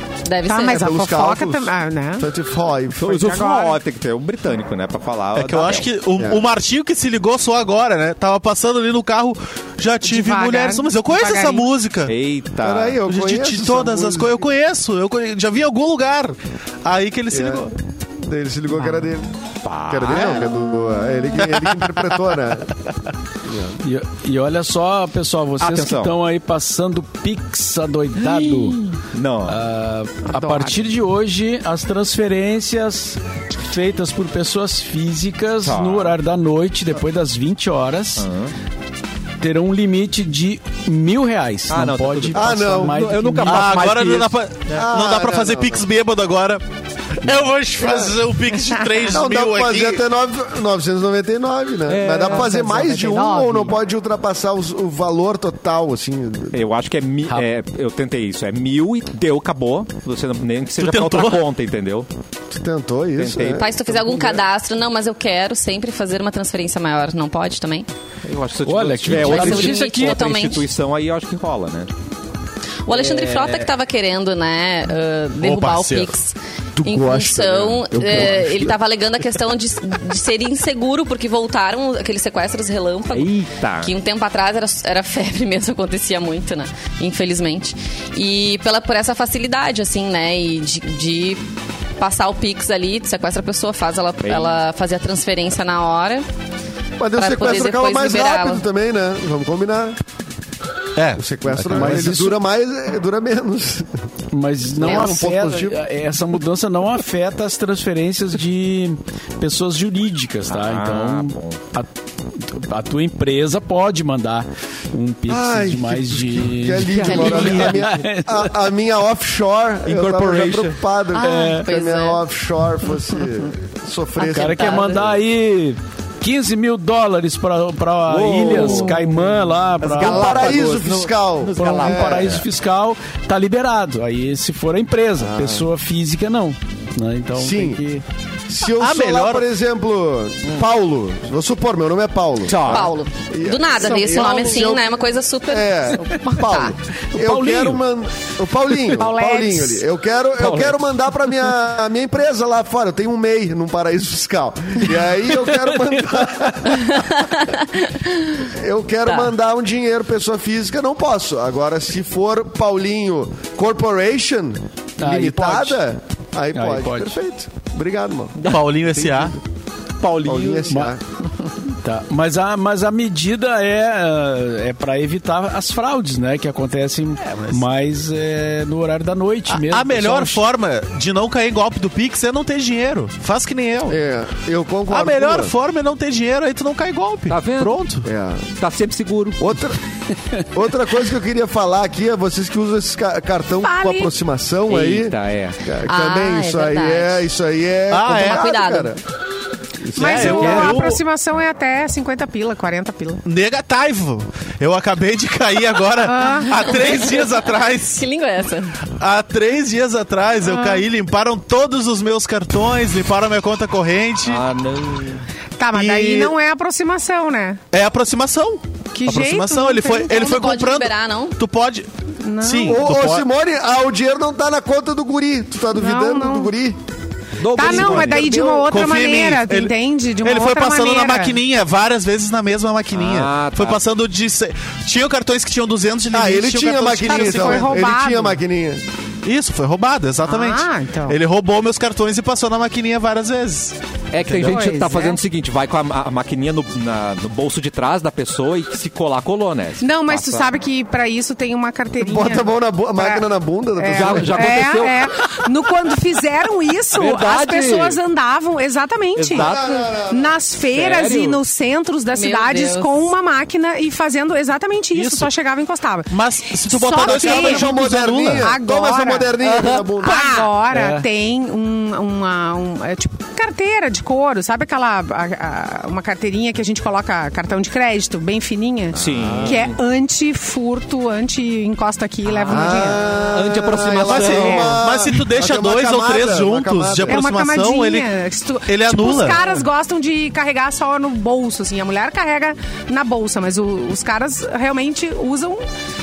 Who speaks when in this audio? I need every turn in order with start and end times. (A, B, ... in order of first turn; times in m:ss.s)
0:00.2-0:00.8 A
0:00.4-0:02.3 B
0:00.7-0:03.2 C
0:03.0-0:05.9 D
0:03.1-0:03.8 B
0:05.3-0:12.1 E
0:06.2-0:06.4 C
0:10.0-0:11.7 B
0:12.0-0:13.0 D
0:12.6-0:14.5 C
0:13.1-0:17.7 E
0:17.3-0:19.3 C
0:19.6-0:20.6 D
0:19.9-0:22.7 C
0:23.4-0:23.8 C
0:23.8-0:28.8 F
0:25.6-0:26.1 D
0:29.1-0:29.6 D
0:29.5-0:38.3 F
0:30.2-0:30.8 B
0:35.6-0:36.1 D
0:38.2-0:38.5 D
0:39.4-0:44.0 F
0:41.7-0:44.8 D
0:42.3-0:43.0 C
0:43.4-0:46.6 E
0:44.7-0:45.8 C
0:47.1-0:50.0 E
0:47.8-0:48.1 C
0:49.1-0:56.6 C
0:51.9-0:52.5 D
0:52.3-0:53.6 B
0:56.5-1:02.1 D
1:00.8-1:01.4 E
1:02.5-1:04.4 C
1:03.2-1:03.6 D
1:03.5-1:07.9 A
1:08.2-1:11.9 D
1:08.6-1:10.2 F
1:09.1-1:10.7 A
1:12.8-1:31.4 A
1:12.9-1:13.7 D
1:15.4-1:16.1 E
1:16.8-1:18.8 C
1:23.1-1:23.9 D
1:32.0-1:36.3 A
1:34.2-1:34.6 D
1:37.0-1:40.0 C
1:37.2-1:38.6 A
1:41.0-1:41.2 E
1:41.2-1:43.9 C
1:41.6-1:42.4 F
1:44.3-1:58.5 F
1:44.7-1:45.8 C
1:44.8-1:45.1 A
1:50.5-1:51.6 D
1:55.3-2:05.1 C
1:57.1-1:57.7 A
1:59.8-2:00.8 D
2:01.1-2:02.2 A
2:01.2-2:01.6 F
2:04.2-2:10.5 F
2:04.4-2:05.1 A
2:08.1-2:12.4 D
2:09.9-2:12.4 C
2:11.6-2:18.0 F
2:15.2-2:15.7 C
2:17.4-2:17.8 C
2:18.5-2:37.1 C
2:18.8-2:19.5 E
2:22.4-2:22.9 D
2:22.6-2:26.8 A
2:27.1-2:27.8 F
2:28.9-2:29.8 B
2:30.4-2:30.8 D
2:35.7-2:36.1 F
2:36.9-2:38.4 A
2:38.5-2:48.4 C
2:39.0-2:39.3 A
2:45.0-2:45.8 F
2:46.5-2:47.2 F
2:48.4-2:49.0 D
2:48.4-2:49.4 E
2:50.0-2:50.8 D
2:50.2-2:51.0 C
2:50.7-2:50.9 F
2:51.7-3:00.4 F
2:57.2-2:57.6 E
2:59.5-3:04.0 E
3:03.9-3:05.5 C
3:04.9-3:08.1 E
3:07.3-3:07.8 D
3:08.0-3:08.5 C
3:08.6-3:09.6 D
3:09.4-3:09.8 C
3:10.4-3:19.0 C
3:13.6-3:14.1 B
3:14.7-3:15.6 D
3:15.8-3:17.2 A
3:17.9-3:18.4 E
3:18.1-3:18.9 A
3:19.8-3:20.4 C
3:20.0-3:23.2 B
3:20.0-3:21.0 E
3:20.2-3:20.9 D
3:23.2-3:28.0 E
3:26.0-3:26.8 B
3:27.9-3:28.8 A
3:29.0-3:34.4 E
3:30.4-3:30.8 B
3:34.2-3:35.2 D
3:35.6-3:37.6 B
3:35.7-3:36.3 E
3:37.7-3:41.9 E
3:38.9-3:40.3 B
3:40.1-3:41.4 A
3:42.2-3:42.8 B
3:42.4-3:43.2 E
3:42.6-3:46.8 C
3:45.7-3:46.5 B
3:47.4-3:48.6 D
3:47.5-3:51.4 B
3:47.6-3:48.6 C
3:48.7-3:57.8 E
3:52.9-3:53.8 D
3:56.1-3:58.8 C
3:57.0-3:58.4 B
3:59.2-4:04.6 E
4:00.2-4:01.2 B
4:04.1-4:10.5 D
4:04.5-4:05.2 B
4:09.8-4:13.2 B
4:12.0-4:14.6 C
4:13.8-4:27.8 B
4:13.9-4:15.1 D
4:16.9-4:18.0 D
4:19.2-4:19.6 D
4:19.4-4:20.4 C
4:20.7-4:21.4 D
4:22.1-4:23.0 A
4:24.9-4:25.3 E
4:26.1-4:28.4 E
4:27.0-4:30.4 C
4:28.4-4:29.4 B
4:29.4-4:29.8 D
4:30.0-4:43.0 B
4:30.7-4:31.0 F
4:38.9-4:39.6 C
4:38.9-4:39.8 D
4:42.4-4:42.7 D
4:42.5-4:47.2 C
4:43.2-4:44.8 D
4:44.0-4:48.1 E
4:44.3-4:44.8 B
4:47.0-4:55.6 B
4:48.7-4:49.6 E